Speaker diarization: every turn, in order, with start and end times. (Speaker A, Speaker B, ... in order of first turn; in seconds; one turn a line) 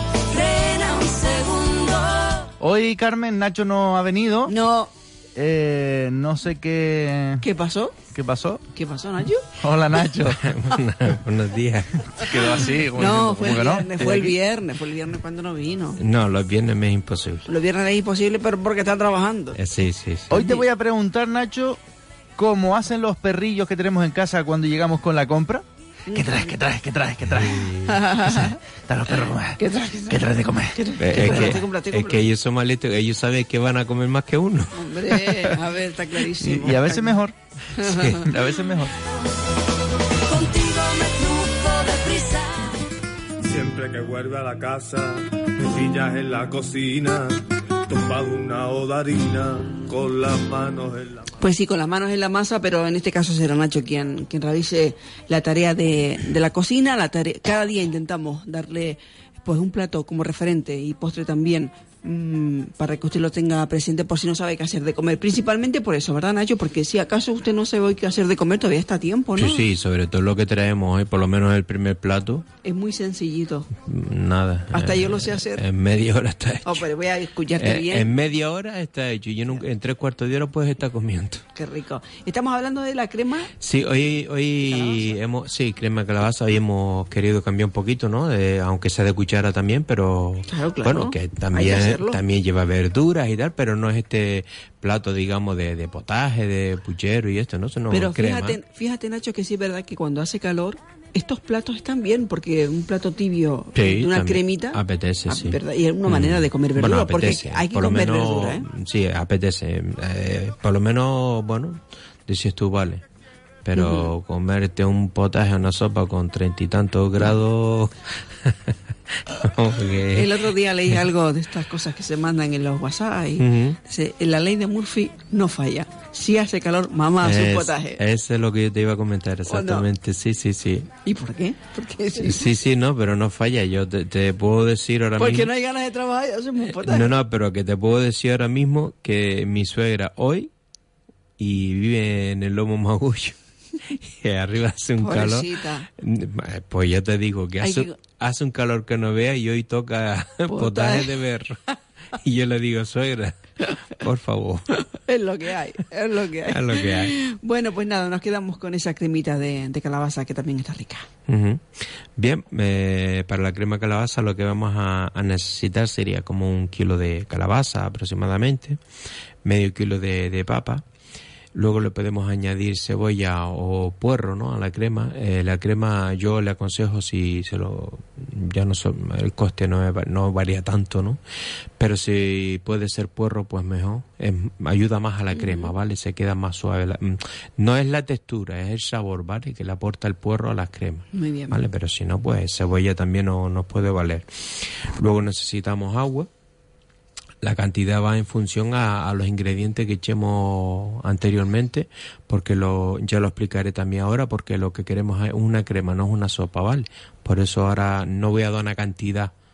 Speaker A: 0.3-2.4
Speaker B: 0.9-1.6
Speaker C: 2.6-4.5
Speaker B: 4.5-4.9
Speaker C: 5.3-7.4
Speaker B: 7.4-8.0
Speaker C: 8.1-8.6
Speaker B: 8.7-9.5
Speaker C: 9.6-10.5
Speaker D: 10.3-12.5
Speaker C: 12.2-13.9
Speaker B: 12.2-16.0
Speaker D: 14.0-14.4
Speaker D: 16.0-17.5
Speaker B: 17.5-19.6
Speaker D: 19.6-20.4
Speaker C: 20.3-21.8
Speaker B: 20.3-20.7
Speaker C: 22.4-31.6
Speaker B: 26.1-26.6
Speaker D: 27.4-28.0
Speaker B: 27.7-28.6
Speaker B: 29.6-32.2
Speaker D: 31.0-35.2
Speaker B: 34.7-37.2
Speaker C: 36.4-37.3
Speaker B: 37.7-38.3
Speaker D: 37.8-38.3
Speaker C: 38.2-39.0
Speaker A: 40.3-42.9
Speaker E: 43.4-51.3
Speaker B: 51.3-69.6
Speaker D: 69.4-72.5
Speaker B: 72.6-73.7
Speaker D: 73.8-76.9
Speaker B: 74.7-75.6
Speaker B: 76.6-78.1
Speaker D: 77.5-81.4
Speaker B: 81.5-83.5
Speaker D: 83.6-98.6
Speaker B: 84.7-85.2
Speaker B: 90.5-92.2
Speaker B: 97.9-108.7
Speaker D: 103.8-113.0
Speaker D: 113.7-120.5
Speaker B: 113.7-114.1
Speaker B: 120.1-128.0
Speaker D: 123.4-123.8
Speaker D: 127.2-130.9
Speaker B: 129.5-129.9
Speaker B: 131.0-132.4
Speaker D: 132.2-135.5
Speaker B: 135.2-137.1
Speaker D: 136.6-140.5
Speaker D: 141.4-151.6
Speaker B: 145.0-145.9
Speaker B: 147.6-148.0
Speaker B: 150.5-151.2
Speaker D: 152.1-154.8
Speaker B: 154.7-161.1
Speaker D: 156.3-157.1
Speaker D: 161.3-168.8
Speaker D: 169.4-170.8
Speaker D: 171.6-181.2
Speaker D: 181.8-196.3
Speaker B: 185.3-185.7
Speaker B: 191.1-191.6
Speaker D: 197.4-209.3